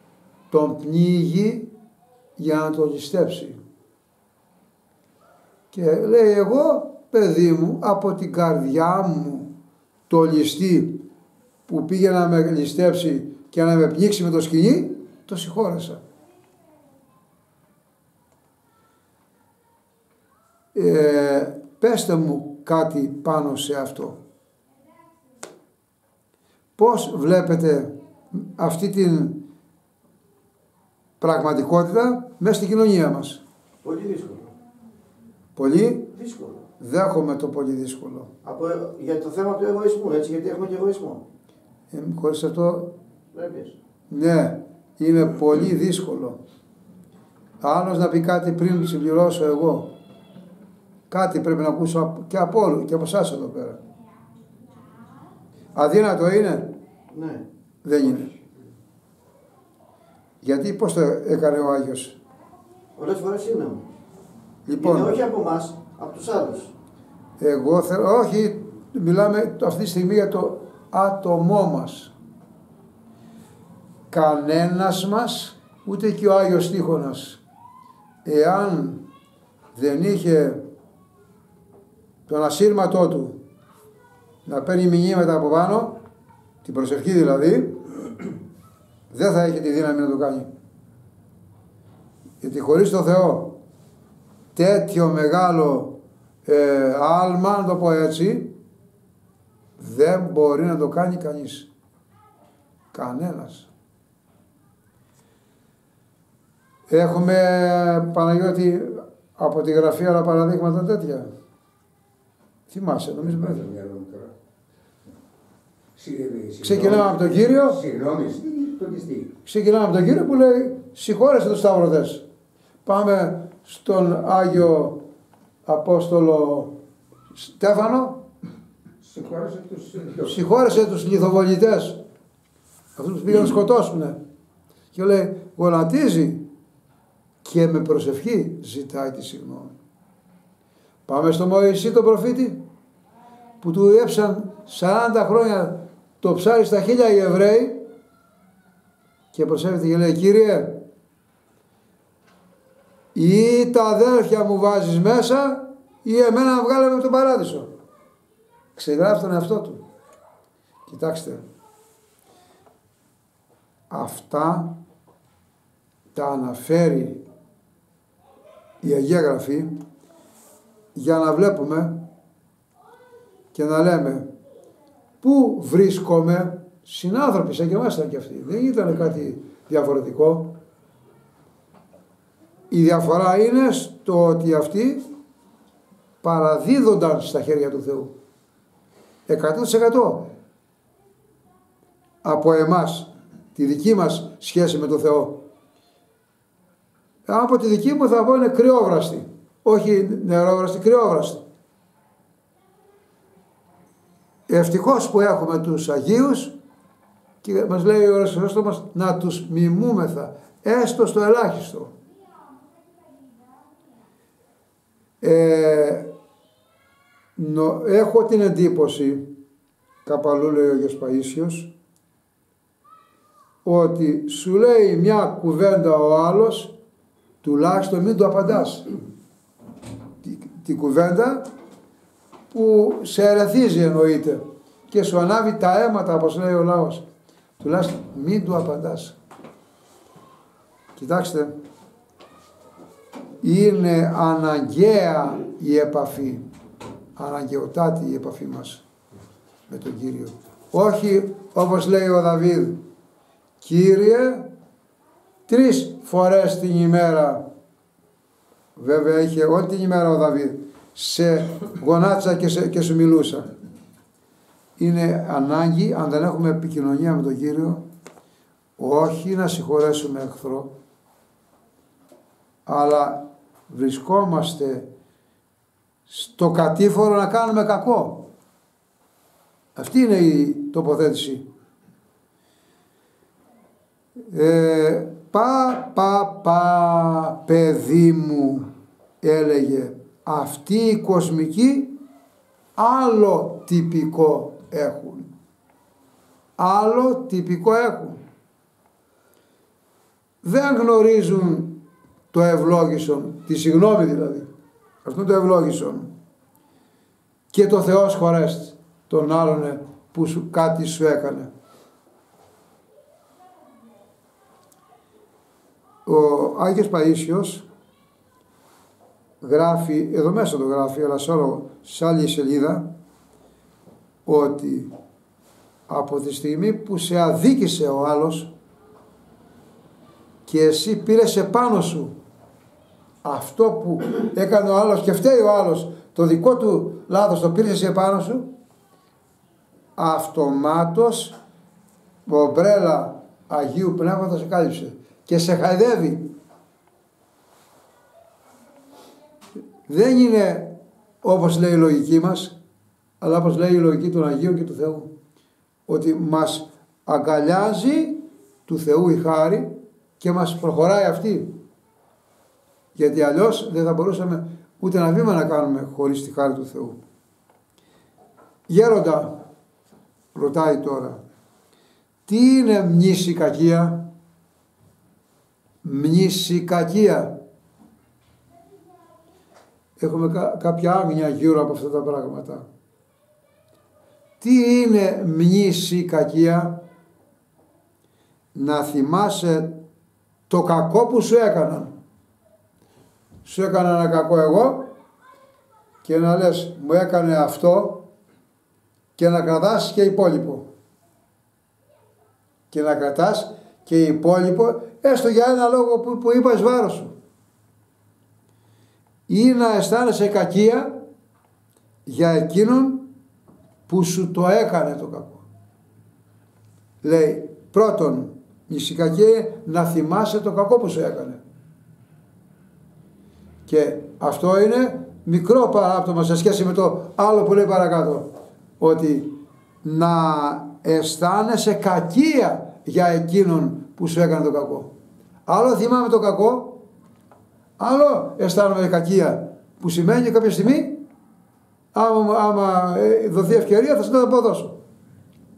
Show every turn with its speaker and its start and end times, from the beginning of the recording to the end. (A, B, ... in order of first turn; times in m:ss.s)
0:00.5-0:01.7 A
0:02.4-0:03.6 A
0:05.7-0:09.5 A
0:10.1-0:11.0 A
0:11.7-0:16.0 A
0:20.7-0:24.2 A
0:26.8-0:29.4 A
0:31.2-0:33.4 A
0:33.8-0:34.5 B
0:35.6-0:36.1 A
0:36.2-0:36.6 B
0:36.8-0:38.3 A
0:38.4-0:41.2 B
0:41.9-0:42.9 A
0:43.3-0:43.7 B
0:44.1-0:46.4 A
0:47.6-0:49.9 A
0:51.1-0:53.8 A
0:55.7-0:56.7 A
0:57.1-0:57.4 B
0:57.8-0:58.3 A
1:00.4-1:02.2 A
1:03.0-1:03.8 B
1:04.6-1:05.2 A
1:04.8-1:06.7 B
1:07.4-1:12.1 A
1:14.1-1:17.4 A
1:18.2-1:19.0 A
1:19.7-1:20.6 A
1:22.3-1:23.4 A
1:24.4-1:26.0 A
1:26.6-1:27.8 A
1:29.1-1:30.5 A
1:32.4-1:33.5 A
1:34.5-1:38.5 A
1:39.8-1:41.7 A
1:42.9-1:43.7 A
1:46.9-1:51.3 A
1:52.7-1:53.6 A
1:53.2-1:54.3 C
1:56.0-1:59.3 C
1:56.6-1:57.8 A
1:59.4-2:02.2 A
2:02.8-2:05.0 A
2:05.6-2:06.7 A
2:07.3-2:08.2 A
2:09.0-2:10.4 C
2:10.2-2:12.0 A
2:13.0-2:14.2 A
2:14.9-2:16.4 A
2:17.4-2:19.7 A
2:21.0-2:22.6 A
2:23.6-2:27.8 A
2:29.3-2:30.8 A
2:33.1-2:37.7 A
2:38.8-2:39.8 A
2:40.9-2:41.4 A
2:43.9-2:44.7 A
2:46.1-2:47.2 A
2:48.8-2:49.8 A
2:50.9-2:52.0 A
2:53.5-2:54.3 A
2:55.2-3:00.5 A
3:02.7-3:05.0 A
3:06.2-3:08.1 A
3:09.3-3:10.3 A
3:12.2-3:15.4 A
3:17.2-3:21.4 A
3:24.5-3:26.5 A
3:27.4-3:31.9 A
3:35.2-3:36.1 A
3:37.4-3:39.3 A
3:40.0-3:41.7 A
3:43.6-3:46.7 A
3:47.4-3:48.9 A
3:50.2-3:51.5 A
3:52.5-3:57.0 A
3:57.6-3:59.2 A
4:01.0-4:01.5 A
4:03.4-4:06.4 A
4:07.2-4:08.8 A
4:09.7-4:12.8 A
4:13.6-4:14.5 A
4:15.5-4:17.4 A
4:18.8-4:23.5 A
4:24.8-4:27.8 A
4:28.8-4:30.7 A
4:32.6-4:34.9 A
4:36.1-4:38.2 A
4:39.8-4:41.4 A
4:44.3-4:48.7 A
4:49.2-4:52.0 A
4:52.8-4:55.3 A
4:56.6-4:58.2 A
5:00.4-5:01.7 A
5:02.3-5:04.5 A
5:05.0-5:06.1 A
5:07.5-5:11.5 A
5:16.0-5:17.6 A
5:19.4-5:22.9 A
5:24.2-5:24.9 A
5:25.9-5:28.5 A
5:30.4-5:32.1 A
5:33.2-5:38.5 A
5:40.0-5:41.4 A
5:42.2-5:46.3 A
5:49.9-5:52.5 A
5:53.2-5:55.1 A
5:55.9-6:01.5 A
6:02.9-6:07.0 A
6:08.7-6:09.4 A
6:10.3-6:11.2 A
6:12.2-6:14.0 A
6:15.8-6:17.3 A
6:20.0-6:22.7 A
6:24.4-6:26.8 A
6:28.5-6:29.7 A
6:30.5-6:31.9 A
6:33.4-6:34.9 A
6:36.0-6:38.0 A
6:39.2-6:40.7 A
6:42.7-6:47.1 A
6:49.3-6:51.0 A
6:52.0-6:53.0 A
6:53.9-6:55.4 A
6:57.0-7:01.4 A
7:03.6-7:08.3 A
7:08.8-7:14.9 A
7:15.4-7:16.8 A
7:17.8-7:21.0 A
7:21.9-7:24.8 A